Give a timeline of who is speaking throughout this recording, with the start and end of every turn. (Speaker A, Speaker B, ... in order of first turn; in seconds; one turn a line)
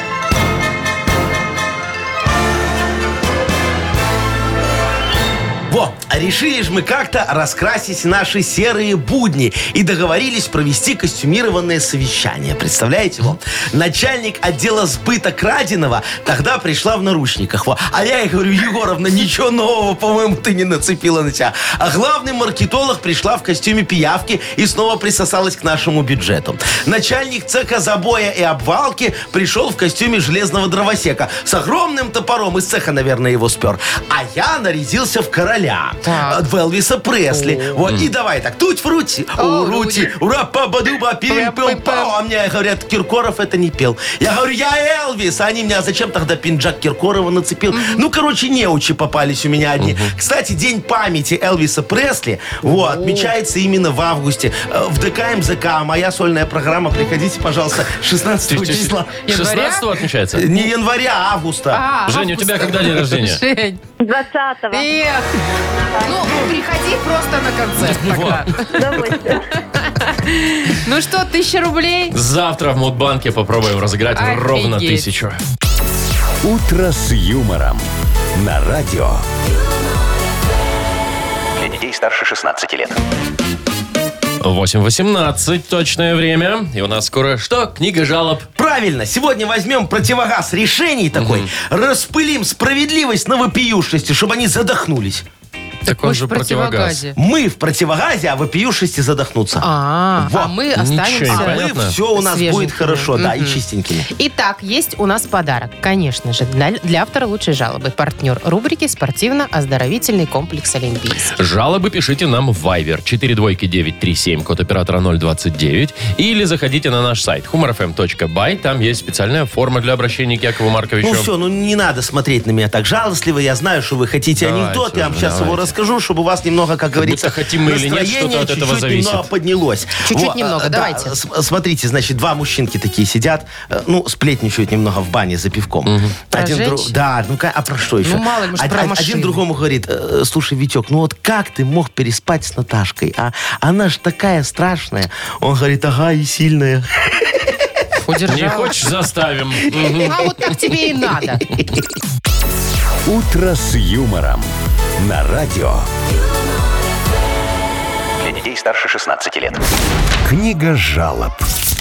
Speaker A: 5.7-59.2
Speaker B: 36.0-36.4
Speaker B: 37.3-37.8
Speaker B: 39.4-40.1
Speaker B: 41.3-42.1
Speaker B: 47.7-48.0
Speaker C: 49.8-50.1
Speaker B: 52.6-53.3
Speaker C: 58.5-60.7
Speaker B: 59.2-59.9
Speaker A: 60.3-61.8
Speaker B: 61.7-63.8
Speaker C: 62.1-63.4
Speaker D: 64.0-64.9
Speaker B: 64.7-65.3
Speaker D: 65.9-66.4
Speaker B: 66.0-69.2
Speaker C: 67.9-68.4
Speaker D: 68.7-69.4
Speaker B: 69.8-72.1
Speaker C: 72.1-75.4
Speaker B: 74.1-75.1
Speaker E: 76.4-79.2
Speaker F: 81.6-83.0
Speaker C: 84.4-88.5
Speaker A: 88.6-95.2
Speaker C: 91.1-91.5
Speaker C: 95.8-97.0
Speaker B: 95.9-97.2
Speaker A: 97.2-100.5
Speaker B: 99.6-103.6
Speaker C: 100.8-102.0
Speaker A: 101.2-104.1
Speaker B: 104.1-111.3
Speaker C: 111.3-121.3
Speaker A: 121.0-147.6
Speaker C: 124.4-125.7
Speaker C: 127.0-129.3
Speaker B: 130.0-131.2
Speaker C: 135.8-136.1
Speaker B: 136.3-136.9
Speaker B: 138.0-139.4
Speaker B: 148.1-148.7
Speaker C: 148.3-150.1
Speaker A: 149.8-150.1
Speaker B: 150.0-151.4
Speaker E: 153.1-155.9
Speaker F: 158.2-159.6
Speaker E: 160.2-161.4